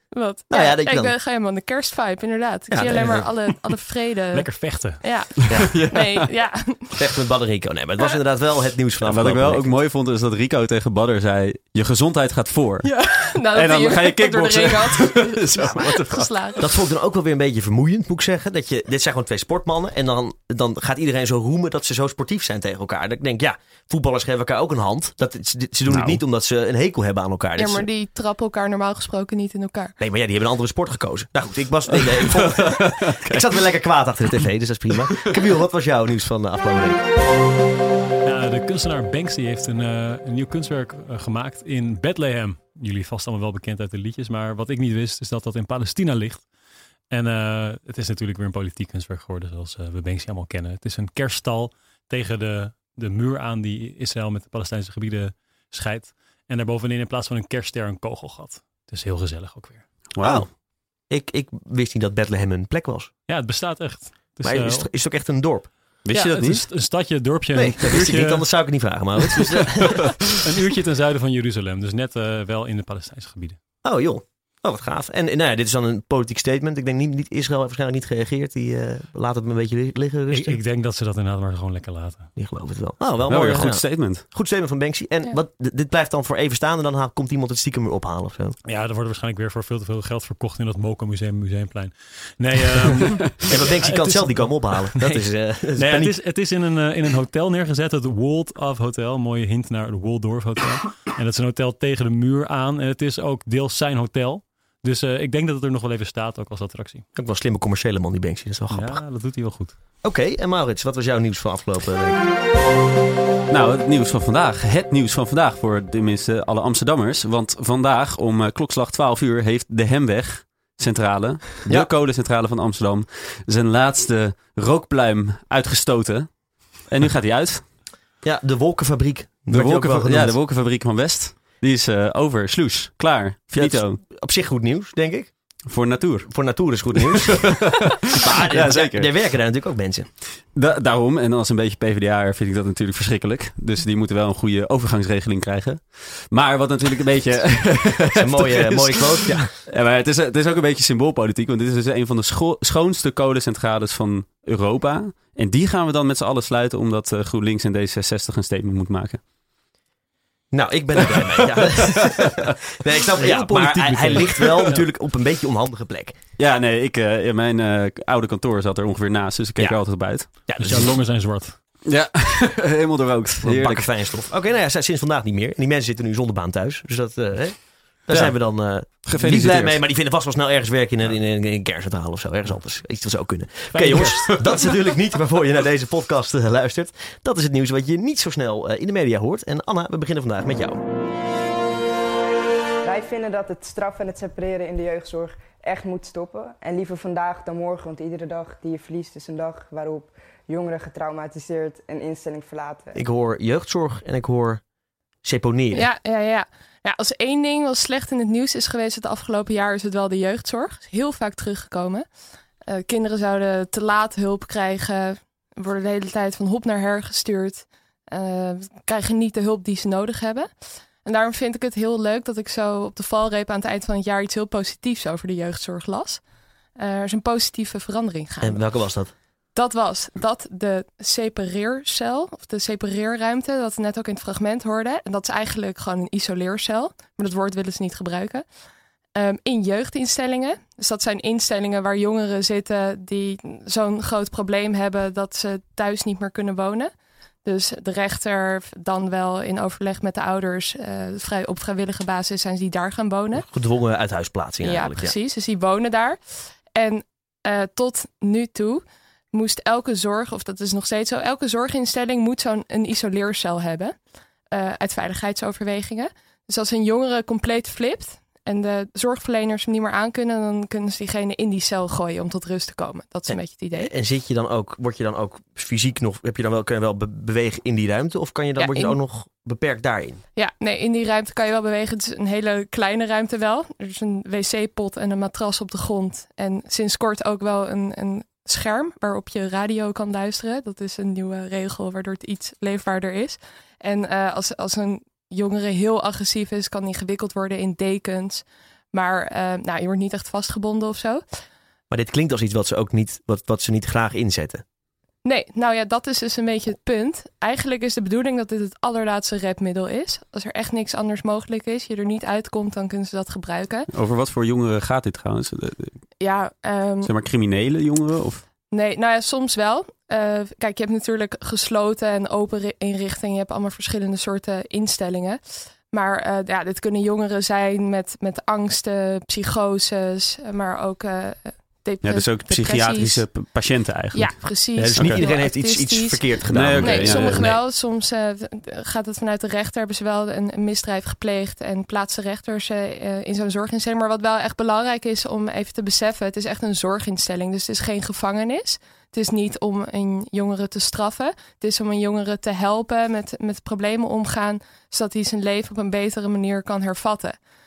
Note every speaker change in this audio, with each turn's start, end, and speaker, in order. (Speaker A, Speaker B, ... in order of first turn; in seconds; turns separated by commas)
Speaker A: 0.1-6.9, Speaker B: 0.5-1.1, Speaker B: 2.7-3.3, Speaker C: 4.3-5.2, Speaker D: 5.5-6.3, Speaker B: 7.0-9.7, Speaker D: 9.0-16.3, Speaker A: 12.8-16.6, Speaker B: 16.6-27.9, Speaker D: 25.9-26.2, Speaker A: 27.6-29.9, Speaker B: 30.0-37.0, Speaker D: 32.2-33.4, Speaker C: 38.2-46.5, Speaker C: 47.1-59.9, Speaker D: 60.1-60.5, Speaker B: 60.2-60.5, Speaker B: 61.1-63.1, Speaker C: 63.3-64.9, Speaker B: 64.4-65.7, Speaker D: 66.0-66.6, Speaker C: 66.1-68.5, Speaker B: 67.5-70.2, Speaker C: 69.3-73.6, Speaker B: 73.8-80.6, Speaker C: 80.3-82.3, Speaker B: 82.3-88.6, Speaker D: 83.3-84.2, Speaker C: 88.6-95.2, Speaker B: 93.5-96.2, Speaker C: 95.7-107.0, Speaker B: 107.1-109.0, Speaker C: 108.7-109.8, Speaker B: 110.0-112.2, Speaker D: 113.5-126.3, Speaker D: 126.9-127.7, Speaker B: 128.2-130.3, Speaker D: 129.5-134.0, Speaker B: 133.5-135.3, Speaker D: 135.7-139.1, Speaker B: 136.3-140.1, Speaker D: 140.5-159.2, Speaker B: 148.1-149.5, Speaker B: 160.5-166.2, Speaker D: 161.2-162.5, Speaker C: 163.2-164.8, Speaker D: 166.4-170.4, Speaker B: 169.6-170.9, Speaker C: 170.6-171.6, Speaker D: 171.8-173.9, Speaker B: 173.4-190.8, Speaker D: 178.1-179.8, Speaker C: 183.7-184.4, Speaker E: 192.8-203.0, Speaker B: 202.9-204.6, Speaker B: 205.2-205.9, Speaker A: 205.7-212.1, Speaker A: 212.7-220.5, Speaker A: 221.0-226.2, Speaker A: 226.8-228.6, Speaker B: 228.4-229.1, Speaker A: 229.5-238.4, Speaker A: 239.1-246.9, Speaker A: 247.4-253.4, Speaker B: 253.3-255.1, Speaker A: 254.6-256.2, Speaker A: 256.7-263.9, Speaker A: 264.5-273.9, Speaker B: 273.3-280.2, Speaker A: 278.6-279.0, Speaker A: 280.4-301.2, Speaker B: 301.9-304.6, Speaker A: 305.2-313.9, Speaker D: 313.9-315.9, Speaker A: 316.2-317.1, Speaker D: 317.0-318.4, Speaker A: 318.7-333.3, Speaker D: 332.0-335.2, Speaker A: 334.1-357.4, Speaker B: 334.8-337.6, Speaker D: 336.5-337.6